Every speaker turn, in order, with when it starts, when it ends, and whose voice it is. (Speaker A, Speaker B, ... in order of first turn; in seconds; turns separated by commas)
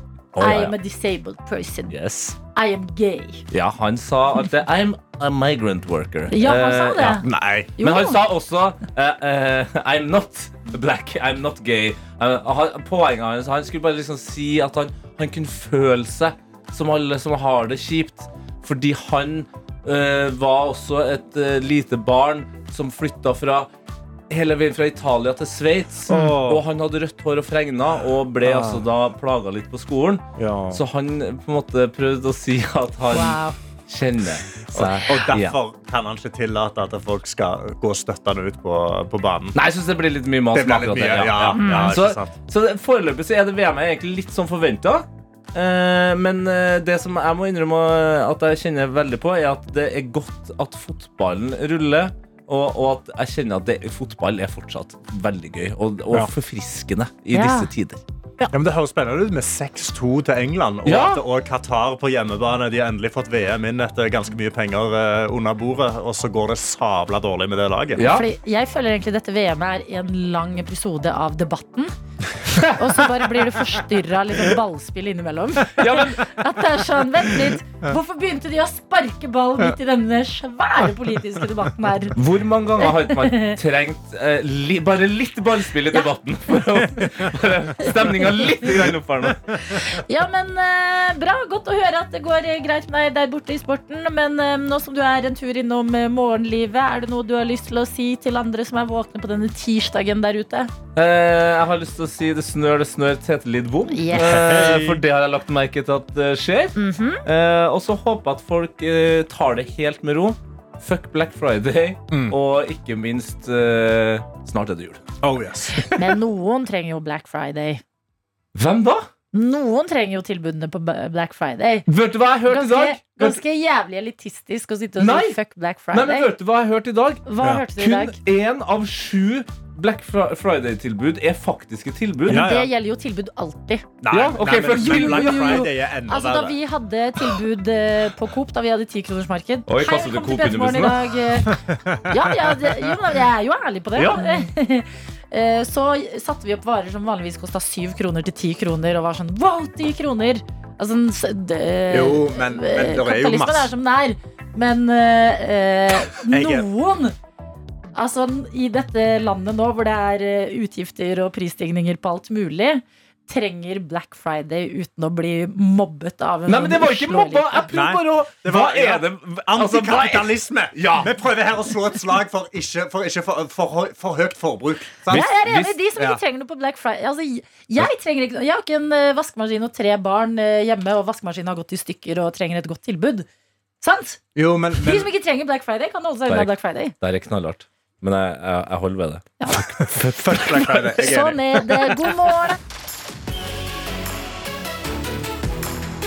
Speaker A: 0.3-0.8, Speaker B: 0.4-1.9, Speaker A: 1.9-2.4, Speaker B: 2.5-3.4, Speaker A: 3.5-23.7, Speaker B: 6.3-7.3, Speaker C: 7.0-7.8, Speaker B: 7.8-8.2, Speaker A: 24.3-35.6, Speaker C: 26.1-26.6, Speaker B: 26.1-26.4, Speaker C: 28.4-28.9, Speaker C: 30.4-30.8, Speaker B: 33.1-33.5, Speaker C: 34.7-39.6, Speaker A: 39.5-58.0, Speaker C: 40.5-42.4, Speaker B: 41.6-42.0, Speaker B: 57.3-57.7, Speaker C: 58.5-68.1, Speaker A: 60.9-61.2, Speaker A: 68.0-68.3, Speaker B: 68.0-71.9, Speaker A: 72.5-73.2, Speaker B: 72.7-82.2, Speaker A: 75.8-76.3, Speaker A: 82.1-89.4, Speaker B: 82.8-83.6, Speaker B: 88.2-88.5, Speaker B: 89.7-100.7, Speaker A: 101.0-115.0, Speaker B: 103.9-104.5, Speaker C: 104.1-105.0, Speaker B: 106.8-107.2, Speaker C: 112.1-112.4, Speaker C: 115.2-115.9, Speaker B: 116.0-117.8, Speaker A: 118.5-119.1, Speaker B: 119.3-121.9, Speaker A: 121.9-123.4, Speaker B: 122.5-126.3, Speaker A: 125.0-125.4, Speaker A: 125.9-132.5, Speaker B: 127.3-128.2, Speaker B: 132.3-133.9, Speaker C: 132.3-132.7, Speaker C: 134.0-136.6, Speaker A: 134.1-135.7, Speaker B: 134.4-157.2, Speaker A: 139.7-141.1, Speaker C: 141.4-143.0, Speaker C: 143.9-144.4, Speaker C: 151.9-153.7, Speaker C: 156.2-156.7, Speaker B: 157.9-167.7, Speaker A: 166.5-171.1, Speaker C: 167.7-176.2, Speaker A: 175.1-175.8, Speaker B: 175.1-183.3, Speaker B: 183.8-186.9, Speaker C: 184.3-185.1, Speaker A: 186.3-189.3, Speaker B: 189.4-192.6, Speaker C: 189.5-192.2